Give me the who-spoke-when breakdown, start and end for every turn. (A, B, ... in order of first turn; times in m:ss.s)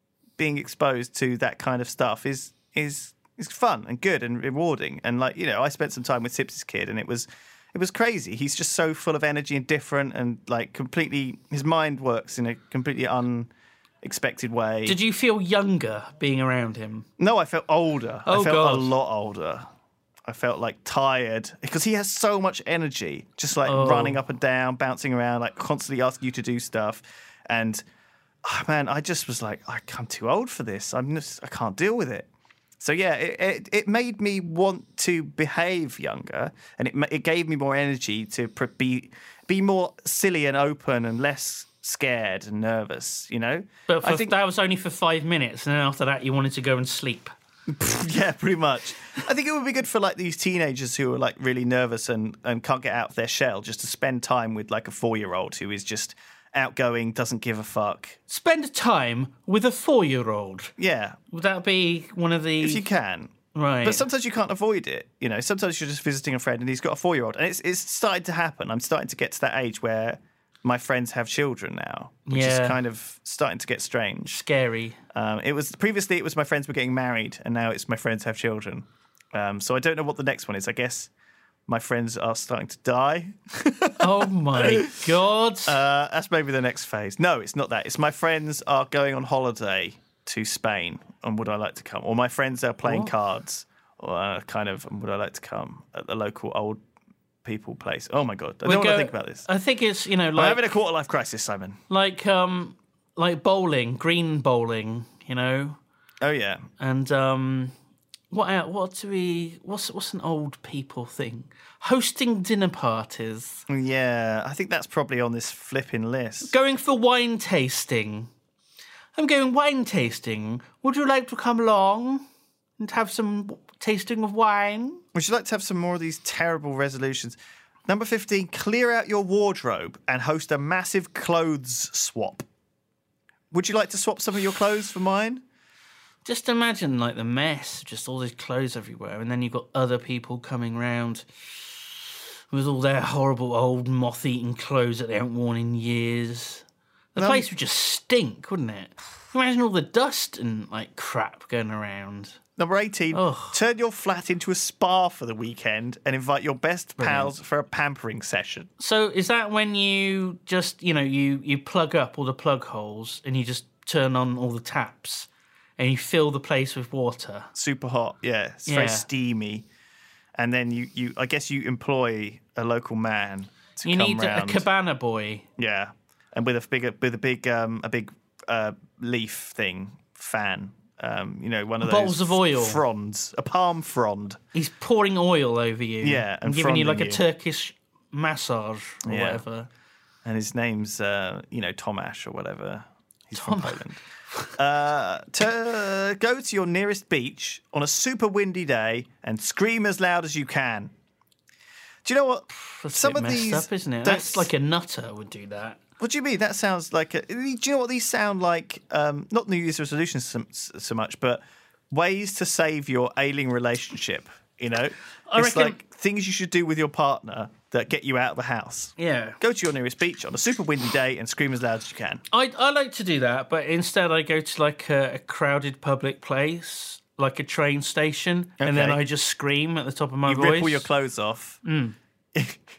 0:00.4-0:13.5 A
0:14.0-0:15.0 A
0:14.9-0:17.1 B
0:17.2-0:19.7 A
0:18.3-0:18.9 B
0:20.3-0:27.8 A
0:23.6-0:24.2 B
0:28.4-0:32.3 A
0:32.8-0:44.3 A
0:43.9-0:47.3 B
0:47.7-0:58.2 A
0:58.3-1:00.7 B
1:00.8-1:01.2 A
1:01.3-1:02.9 B
1:02.6-1:14.4 A
1:03.5-1:04.0 B
1:12.3-1:12.8 B
1:14.3-1:15.0 B
1:15.1-1:21.1 A
1:21.7-1:25.1 A
1:24.0-1:25.8 B
1:25.7-1:36.8 A
1:32.8-1:33.1 B
1:37.4-1:39.5 A
1:38.6-1:40.6 B
1:40.4-1:41.8 A
1:41.9-1:45.8 B
1:46.2-1:46.7 A
1:46.8-1:47.7 B
1:48.3-1:53.6 B
1:53.7-1:56.5 A
1:56.4-1:58.3 B
1:59.2-2:02.2 B
2:02.8-2:05.0 B
2:05.1-2:12.5 A
2:13.5-2:15.4 A
2:16.2-2:32.4 B
2:27.2-2:27.5 A
2:32.6-2:38.7 A
2:33.1-2:33.6 B
2:37.0-2:37.3 B
2:38.8-2:47.5 B
2:47.6-2:49.7 A
2:48.7-2:49.1 B
2:50.4-2:54.7 A
2:53.8-2:55.5 B
2:55.6-3:04.4 A
3:01.8-3:02.8 B
3:04.5-3:09.7 B
3:06.0-3:07.2 A
3:09.0-3:09.4 A
3:10.2-3:14.0 A
3:13.3-3:14.5 B
3:14.6-3:20.9 A
3:22.0-3:24.5 A
3:22.6-3:25.8 B
3:26.0-3:42.2 A
3:35.3-3:35.8 B
3:39.0-3:39.4 B
3:42.3-3:50.9 B
3:48.6-3:49.0 A
3:50.3-3:51.6 A
3:51.6-3:52.0 B
3:52.4-3:52.6 A